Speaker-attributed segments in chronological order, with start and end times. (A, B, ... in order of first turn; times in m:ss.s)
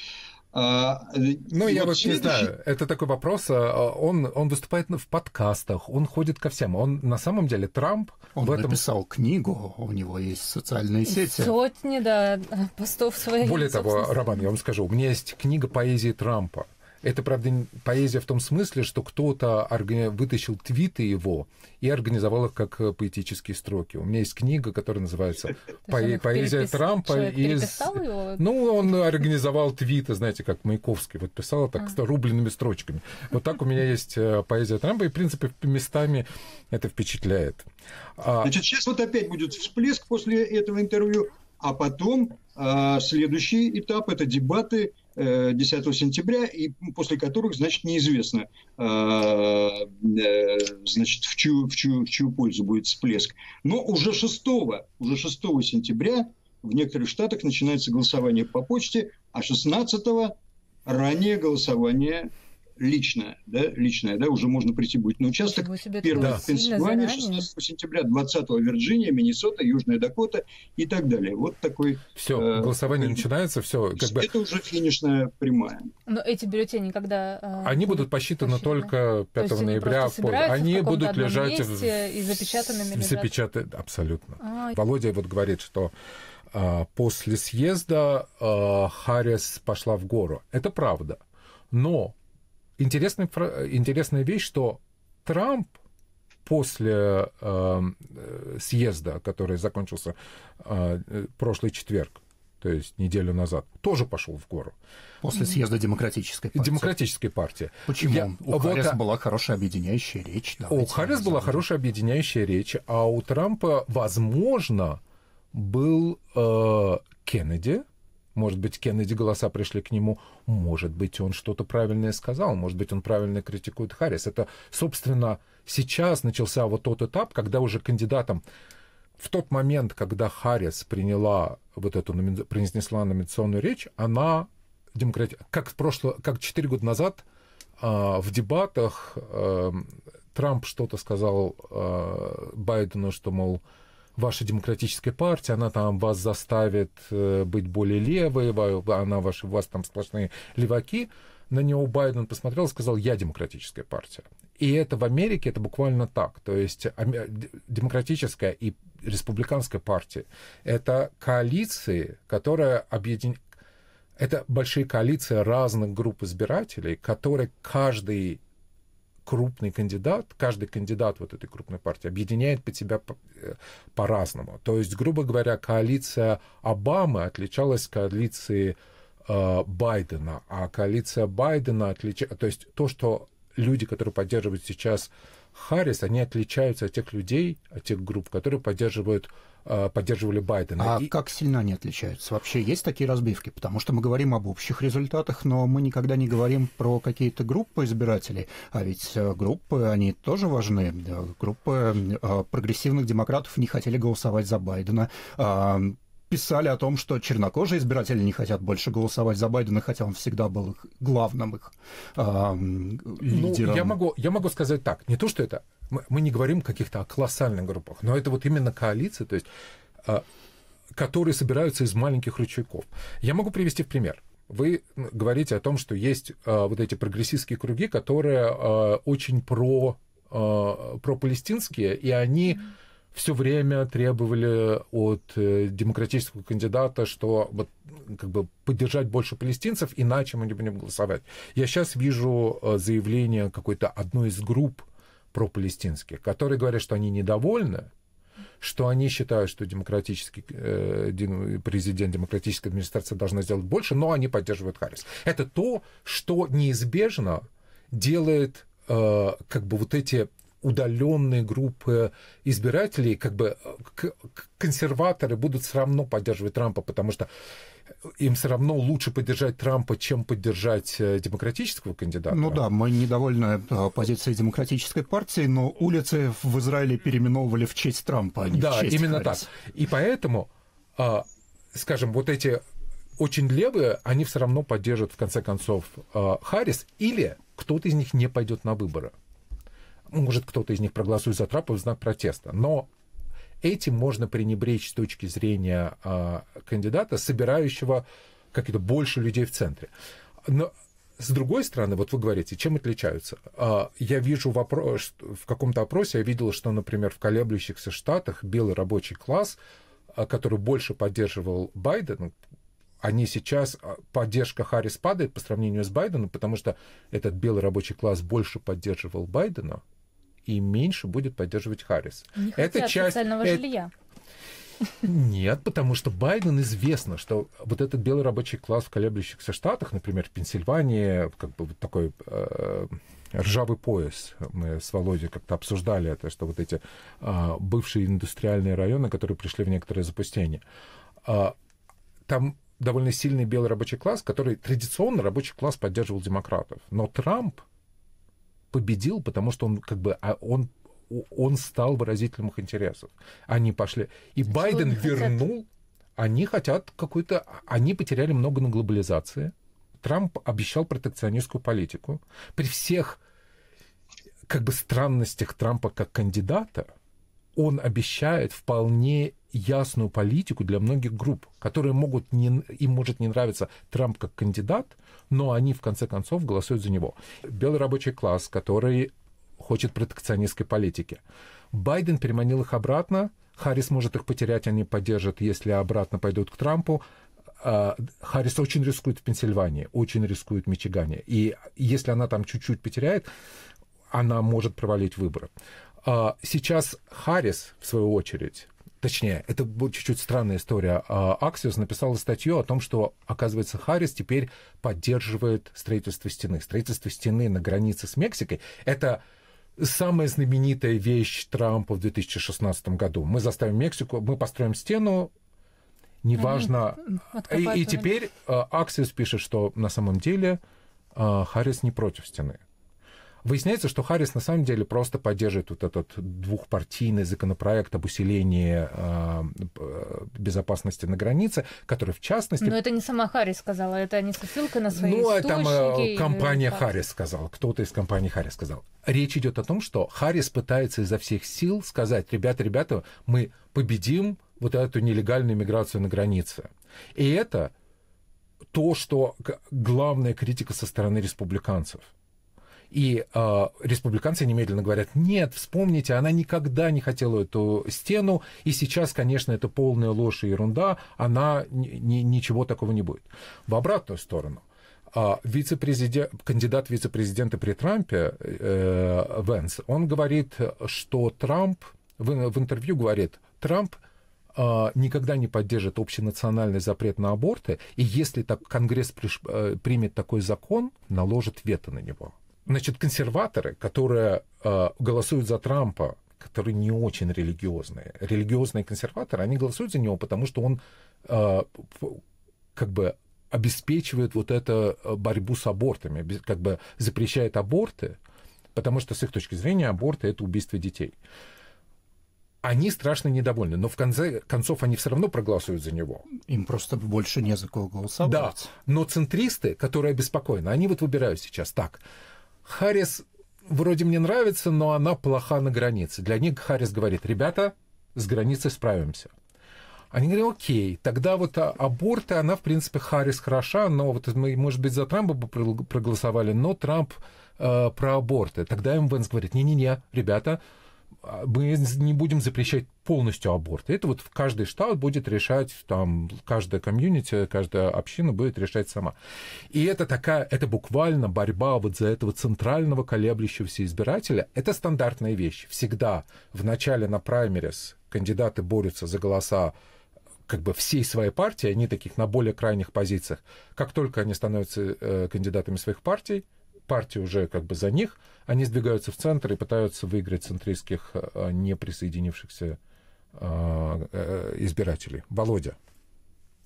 0:00.5-0:02.5 A
0:01.5-0:08.8 B
0:08.3-0:11.5 C
0:11.1-0:14.5 D
0:13.4-0:38.5 B
0:25.9-0:28.4 D
0:38.4-1:00.3 A
1:00.8-1:13.2 A
1:05.4-1:07.5 D
1:06.1-1:06.4 B
1:12.2-1:14.3 B
1:14.0-1:15.9 A
1:16.1-1:23.3 D
1:17.6-1:21.9 B
1:22.9-1:25.9 B
1:24.4-1:24.8 D
1:26.5-1:31.2 B
1:31.7-1:32.2 B
1:32.8-1:35.8 B
1:36.4-1:44.7 B
1:45.2-1:46.9 C
1:46.5-1:49.0 B
1:47.9-1:51.6 C
1:50.7-1:55.0 B
1:55.5-2:08.4 B
2:09.2-2:17.2 B
2:17.8-2:23.6 B
2:24.2-2:43.4 B
2:44.2-2:48.4 B
2:49.2-3:11.1 B
3:10.8-3:34.0 C
3:33.2-3:39.5 B
3:40.9-4:07.9 B
4:08.6-4:27.3 B
4:28.2-4:32.6 B
4:32.3-4:39.5 C
4:38.5-4:42.6 B
4:43.2-4:49.1 B
4:50.1-4:52.9 B
4:53.6-4:59.9 B
5:00.4-5:09.6 B
5:10.1-5:12.3 B
5:13.0-5:19.8 B
5:20.4-5:23.6 B
5:22.4-5:23.9 D
5:25.0-5:40.6 B
5:41.2-5:41.5 B
5:42.2-5:47.6 B
5:48.7-6:03.2 B
5:54.5-5:55.4 D
6:04.5-6:06.9 B
6:07.6-6:21.2 B
6:21.7-6:27.0 B
6:27.6-6:33.3 B
6:34.1-6:35.5 B
6:36.0-6:49.2 B
6:49.8-6:55.3 B
6:56.2-7:00.6 B
6:56.4-6:58.1 D
7:01.1-7:02.6 B
7:03.4-7:12.8 B
7:12.6-7:16.8 D
7:14.9-7:27.7 B
7:28.7-7:32.1 B
7:32.9-7:54.0 B
7:54.5-8:12.2 B
8:12.7-8:18.2 B
8:18.7-8:21.1 B
8:22.6-8:26.2 B
8:26.4-8:28.7 C
8:28.2-8:32.0 B
8:32.6-8:39.3 B
8:40.1-8:50.6 B
8:51.2-8:59.1 B
8:59.7-9:09.7 B
9:10.5-9:22.8 B
9:23.3-9:25.8 B